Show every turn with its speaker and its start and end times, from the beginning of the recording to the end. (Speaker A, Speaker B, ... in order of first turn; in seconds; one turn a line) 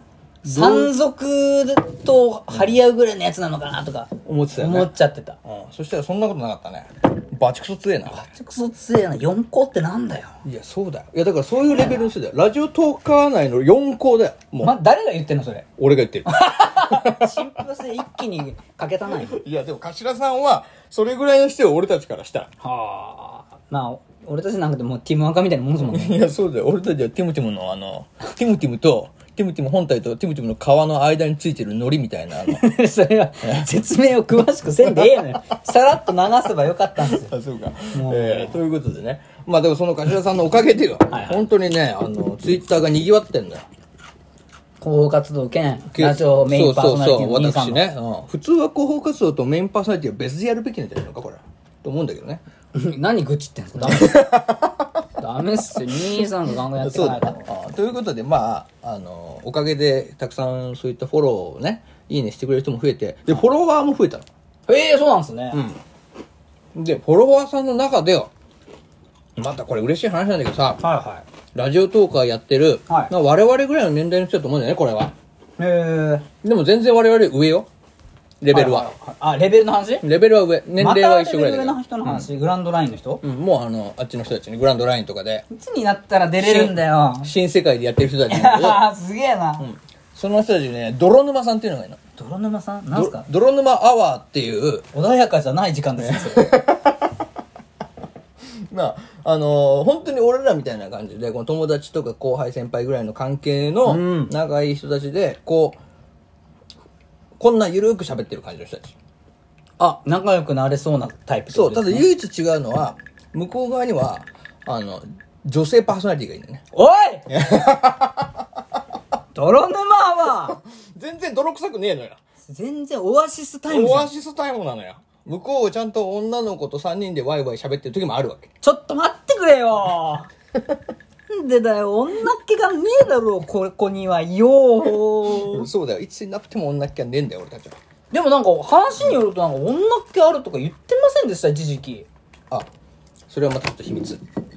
Speaker A: 0.4-5.4
Speaker B: 0.5-0.9
Speaker B: 4.2-4.9
Speaker B: 5.5-8.3
Speaker A: 8.1-10.4
Speaker B: 10.4-14.8
Speaker A: 14.6-15.7
Speaker B: 15.8-17.5
Speaker A: 16.2-19.4
Speaker B: 19.2-22.5
Speaker A: 22.6-26.2
Speaker B: 25.8-32.6
Speaker A: 32.4-37.3
Speaker B: 33.4-33.7
Speaker B: 37.1-43.6
Speaker A: 37.9-38.6
Speaker A: 41.1-41.4
Speaker A: 44.8-47.8
Speaker B: 45.9-52.4
Speaker A: 52.7-54.4
Speaker B: 53.8-54.8
Speaker A: 55.2-57.4
Speaker B: 56.7-64.2
Speaker A: 64.7-65.7
Speaker B: 66.7-68.3
Speaker B: 69.3-70.8
Speaker A: 70.8-71.2
Speaker B: 71.5-75.1
Speaker A: 75.6-76.2
Speaker B: 76.4-77.7
Speaker B: 78.4-78.9
Speaker A: 78.5-80.0
Speaker B: 80.0-82.3
Speaker A: 80.8-83.2
Speaker B: 83.2-85.5
Speaker A: 85.5-87.3
Speaker B: 86.4-88.8
Speaker A: 88.3-89.6
Speaker B: 89.6-92.0
Speaker A: 92.2-93.3
Speaker B: 92.9-94.9
Speaker A: 94.9-96.6
Speaker B: 96.1-97.0
Speaker B: 98.6-105.8
Speaker A: 103.8-104.3
Speaker B: 107.4-108.9
Speaker A: 109.8-112.1
Speaker B: 111.5-116.7
Speaker A: 116.7-117.2
Speaker B: 117.3-118.3
Speaker A: 119.3-120.6
Speaker B: 120.5-122.2
Speaker A: 122.4-124.1
Speaker B: 123.7-128.5
Speaker A: 128.6-130.3
Speaker A: 131.3-135.7
Speaker B: 135.3-137.8
Speaker A: 138.1-142.1
Speaker B: 143.3-144.2